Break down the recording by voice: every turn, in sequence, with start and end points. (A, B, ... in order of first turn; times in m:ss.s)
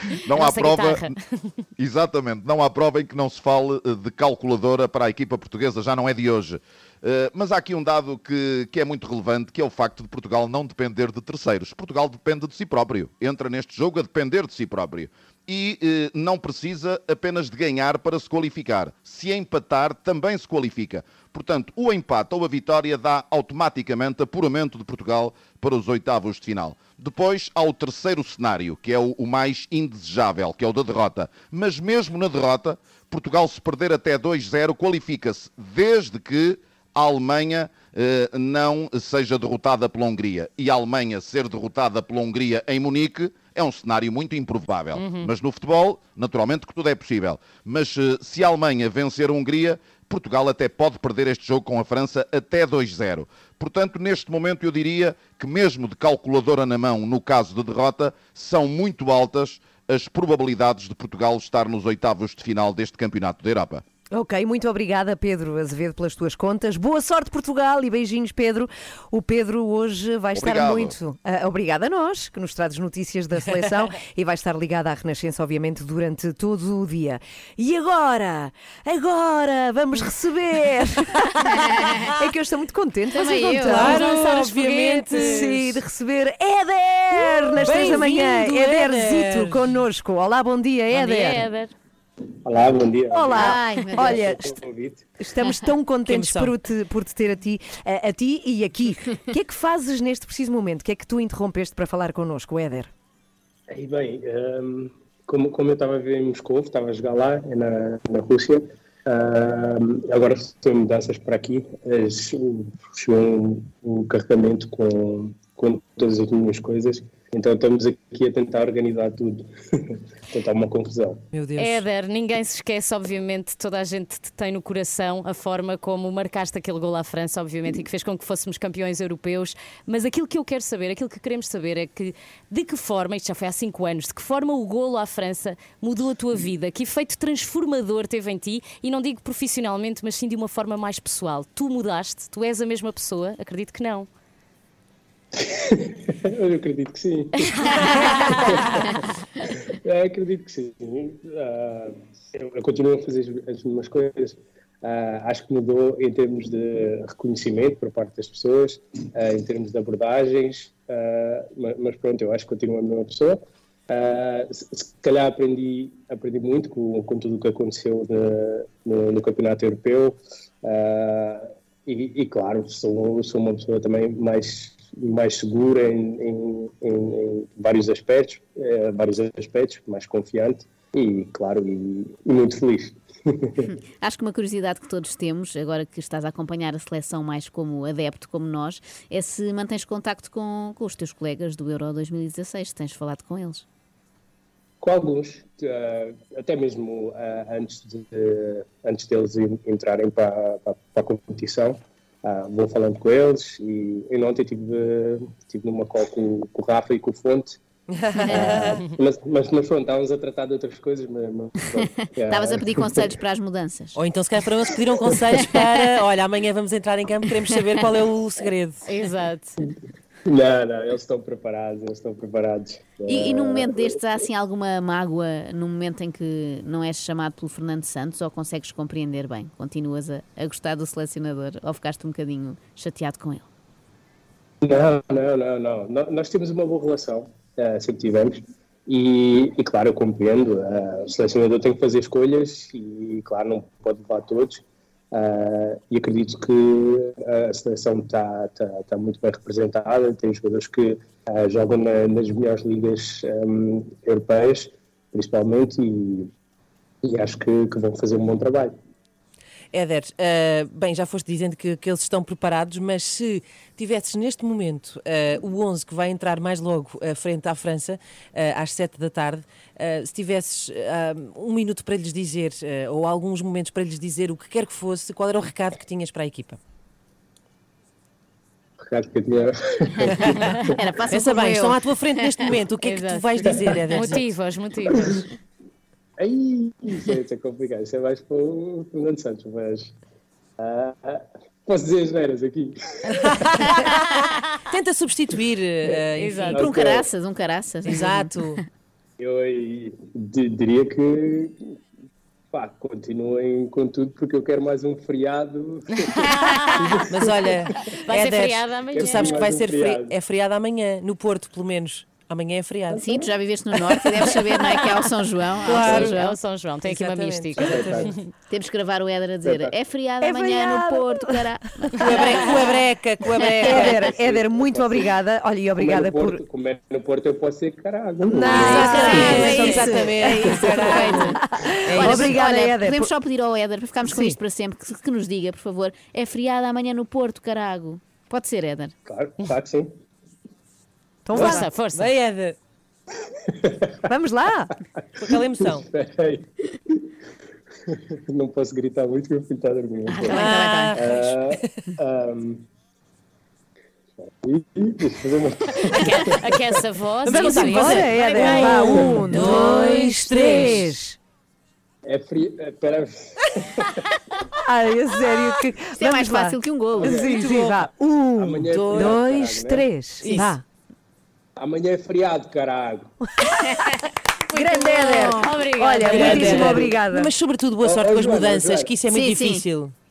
0:00.2-0:01.1 A
0:00.3-0:01.6 B
0:01.8-1:03.8 A
0:44.9-0:45.3 B
1:04.1-1:21.0 C
1:10.3-1:10.9 A
1:21.5-1:22.1 D
1:22.2-1:24.2 C
1:23.1-1:24.0 D
1:23.6-1:25.8 E
1:23.7-1:25.6 B
1:25.1-1:31.5 C
1:27.6-1:29.7 E
1:30.9-1:31.7 B
1:32.4-1:35.0 F
1:33.1-1:34.6 C
1:33.4-1:34.2 D
1:35.2-1:42.9 C
1:36.0-1:36.5 E
1:43.7-1:59.5 F
2:00.3-2:01.2 F
2:01.3-2:01.8 E
2:01.6-2:24.1 B
2:25.4-2:27.4 F
2:27.6-2:28.6 B
2:28.3-2:28.6 F
2:29.8-3:03.6 F
3:04.0-3:13.6 D
3:14.8-3:27.6 F
3:27.9-3:28.8 E
3:28.3-3:28.7 D
3:28.4-3:33.1 F
3:31.7-3:34.0 D
3:34.0-3:38.8 E
3:35.3-3:35.9 D
3:38.8-3:39.6 B
3:40.2-3:44.0 F
3:43.1-3:53.5 D
3:54.6-4:16.3 F
4:17.0-4:18.8 F
4:19.7-4:36.6 E
4:38.8-4:40.7 F
4:40.2-4:40.4 E
4:40.3-4:42.5 D
4:41.1-4:44.2 E
4:42.8-4:45.2 B
4:46.2-4:49.9 F
4:50.6-4:53.3 F
4:53.4-4:54.2 E
4:53.7-4:54.1 D
4:54.7-4:56.9 E
4:56.2-4:56.7 B
4:56.5-4:57.1 F
4:56.5-4:58.6 D
4:57.9-4:58.6 E
4:59.2-5:01.6 F
5:02.5-5:07.6 F
5:06.3-5:06.8 B
5:07.1-5:13.2 E
5:08.0-5:09.4 B
5:08.9-5:10.1 F
5:12.9-5:13.2 F
5:12.9-5:16.4 D
5:14.0-5:14.5 E
5:15.6-5:16.1 E
5:15.8-5:16.1 F
5:16.1-5:18.3 B
5:16.8-5:18.1 E
5:17.6-5:18.1 F
5:18.5-5:24.0 D
5:19.4-5:19.7 F
5:20.2-5:21.4 C
5:22.0-5:22.4 C
5:22.0-5:24.0 E
5:23.6-5:26.4 C
5:24.0-5:25.1 F
5:25.8-5:29.6 F
5:28.2-5:33.1 C
5:28.3-5:31.4 E
5:28.4-5:38.9 D
5:29.1-5:29.8 B
5:31.9-5:32.4 E
5:39.0-5:39.9 F
5:41.2-5:41.7 C
5:41.3-5:42.1 B
5:41.3-5:42.6 E
5:43.5-5:43.9 F
5:44.1-5:44.7 C
5:45.2-5:45.8 E
5:45.3-5:46.5 F
5:47.9-5:52.6 F
5:50.1-5:51.0 D
5:50.3-5:51.7 E
5:54.3-5:56.5 F
5:55.9-5:59.7 B
5:57.2-6:00.9 E
5:57.3-6:01.2 C
6:02.0-6:03.9 F
6:04.6-6:10.6 C
6:06.0-6:07.5 D
6:07.0-6:07.8 E
6:07.0-6:07.3 F
6:08.4-6:09.9 F
6:08.7-6:09.2 E
6:10.2-6:10.5 D
6:11.6-6:13.1 F
6:14.5-6:17.3 C
6:14.6-6:16.9 B
6:16.1-6:19.9 E
6:16.1-6:16.9 F
6:17.8-6:18.9 F
6:19.1-6:19.6 D